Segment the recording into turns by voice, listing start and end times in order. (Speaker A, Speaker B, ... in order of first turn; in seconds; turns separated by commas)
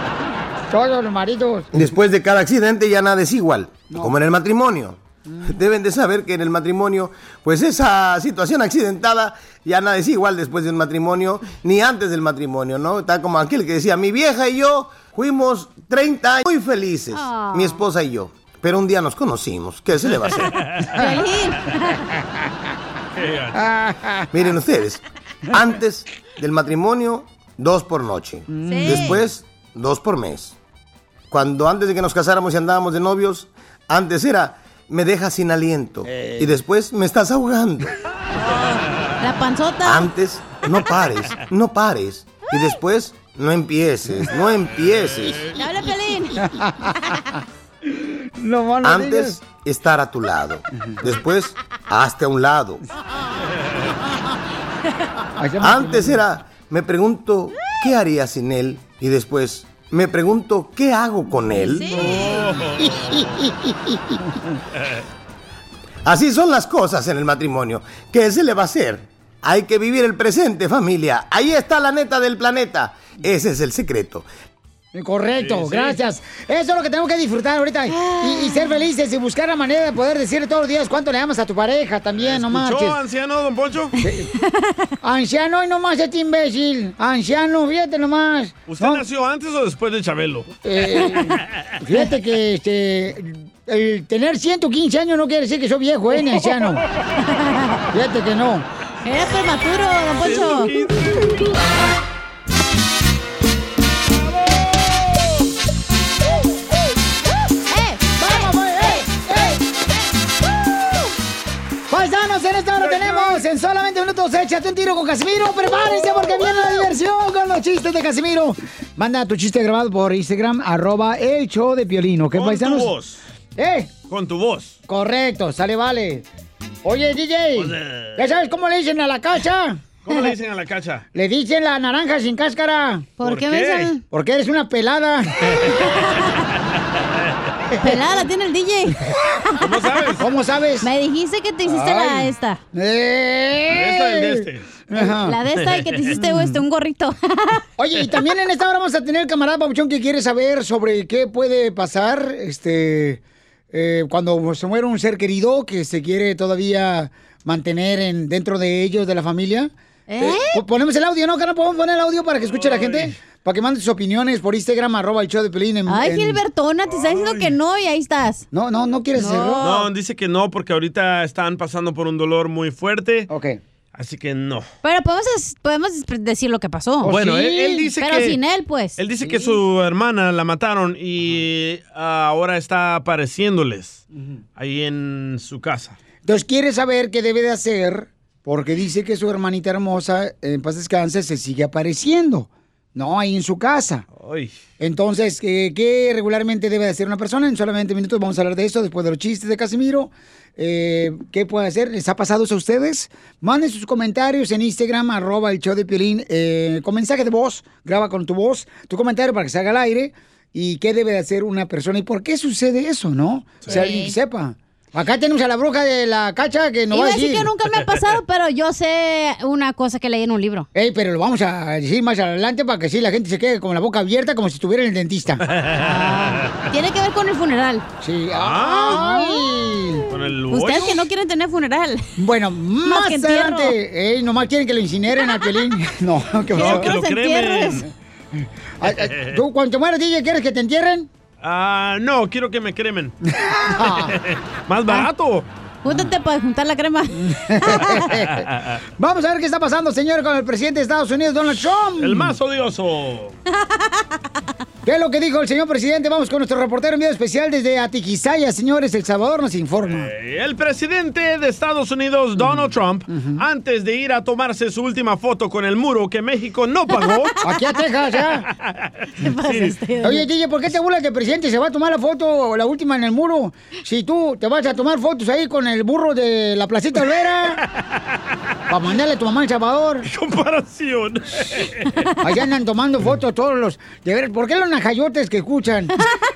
Speaker A: 0.7-1.8, Speaker B: 1.7-20.5, Speaker C: 17.1-17.8, Speaker D: 20.6-21.1, Speaker C: 20.9-21.9, Speaker D: 23.1-23.6, Speaker A: 23.5-24.3, Speaker B: 24.3-25.0, Speaker B: 25.5-30.6, Speaker A: 28.5-29.2, Speaker C: 28.6-29.2, Speaker B: 31.3-37.9, Speaker C: 38.4-40.1, Speaker B: 39.8-45.5, Speaker D: 44.8-45.5, Speaker C: 45.5-46.4, Speaker A: 46.4-47.4, Speaker A: 48.4-49.4, Speaker B: 48.8-52.8, Speaker A: 55.4-56.2, Speaker B: 55.6-61.9, Speaker C: 61.7-62.3, Speaker D: 62.0-63.4, Speaker A: 62.0-64.3, Speaker B: 66.0-74.2, Speaker A: 74.9-83.0, Speaker D: 75.4-76.0, Speaker C: 77.9-78.8, Speaker D: 82.1-83.9, Speaker A: 84.0-84.3, Speaker A: 85.0-89.0, Speaker D: 88.7-90.5, Speaker A: 90.6-96.8, Speaker C: 97.2-97.8, Speaker A: 97.9-98.7, Speaker C: 99.0-100.7, Speaker D: 100.2-101.3, Speaker C: 107.7-108.5, Speaker A: 108.2-109.6, Speaker A: 111.9-122.9, Speaker D: 112.8-113.4, Speaker D: 122.3-123.2, Speaker A: 123.6-123.9, Speaker D: 124.1-124.8, Speaker A: 124.9-126.2, Speaker A: 126.8-129.8, Speaker D: 127.5-128.2, Speaker D: 130.0-131.1, Speaker A: 131.1-133.1, Speaker C: 133.2-134.0, Speaker D: 133.2-133.9, Speaker A: 134.1-135.8, Speaker C: 137.8-139.0, Speaker D: 139.6-140.2, Speaker A: 140.2-140.9, Speaker C: 140.8-142.6, Speaker A: 141.6-145.4, Speaker D: 143.7-144.7, Speaker C: 144.9-147.6, Speaker D: 145.6-146.2, Speaker A: 146.2-146.6, Speaker A: 147.8-153.2, Speaker A: 153.7-166.4, Speaker C: 160.1-160.6, Speaker D: 162.4-163.1, Speaker C: 165.9-168.4, Speaker D: 166.9-167.6, Speaker A: 168.5-169.7, Speaker C: 169.1-169.7, Speaker D: 169.6-173.3, Speaker A: 173.3-173.6, Speaker D: 173.9-174.7, Speaker C: 174.8-177.1, Speaker A: 177.0-177.9, Speaker D: 177.1-178.4, Speaker C: 178.0-179.0, Speaker D: 179.0-184.0, Speaker A: 179.2-179.6, Speaker D: 184.6-186.0, Speaker A: 186.2-194.0, Speaker D: 194.2-194.5, Speaker A: 194.8-217.5, Speaker C: 213.7-214.2, Speaker C: 216.9-220.7, Speaker A: 220.7-225.4, Speaker D: 225.5-226.7, Speaker C: 225.8-227.8, Speaker A: 228.0-230.0, Speaker D: 228.3-229.1, Speaker C: 229.0-229.4, Speaker D: 230.1-231.1, Speaker C: 230.5-232.1, Speaker A: 232.2-236.9, Speaker C: 232.8-233.8, Speaker C: 236.5-237.8, Speaker D: 236.5-237.8, Speaker A: 238.8-241.1, Speaker D: 238.8-239.4, Speaker D: 241.4-243.2, Speaker A: 243.3-244.2, Speaker D: 243.8-245.5, Speaker C: 245.8-247.2, Speaker A: 247.1-252.3, Speaker D: 248.1-248.8, Speaker D: 252.0-253.4, Speaker A: 254.8-260.1, Speaker D: 259.9-267.3, Speaker A: 262.4-263.4, Speaker A: 267.4-268.5, Speaker C: 269.2-270.3, Speaker D: 269.2-269.8, Speaker A: 270.0-277.6, Speaker A: 278.7-280.1, Speaker D: 280.1-281.9, Speaker A: 282.2-285.9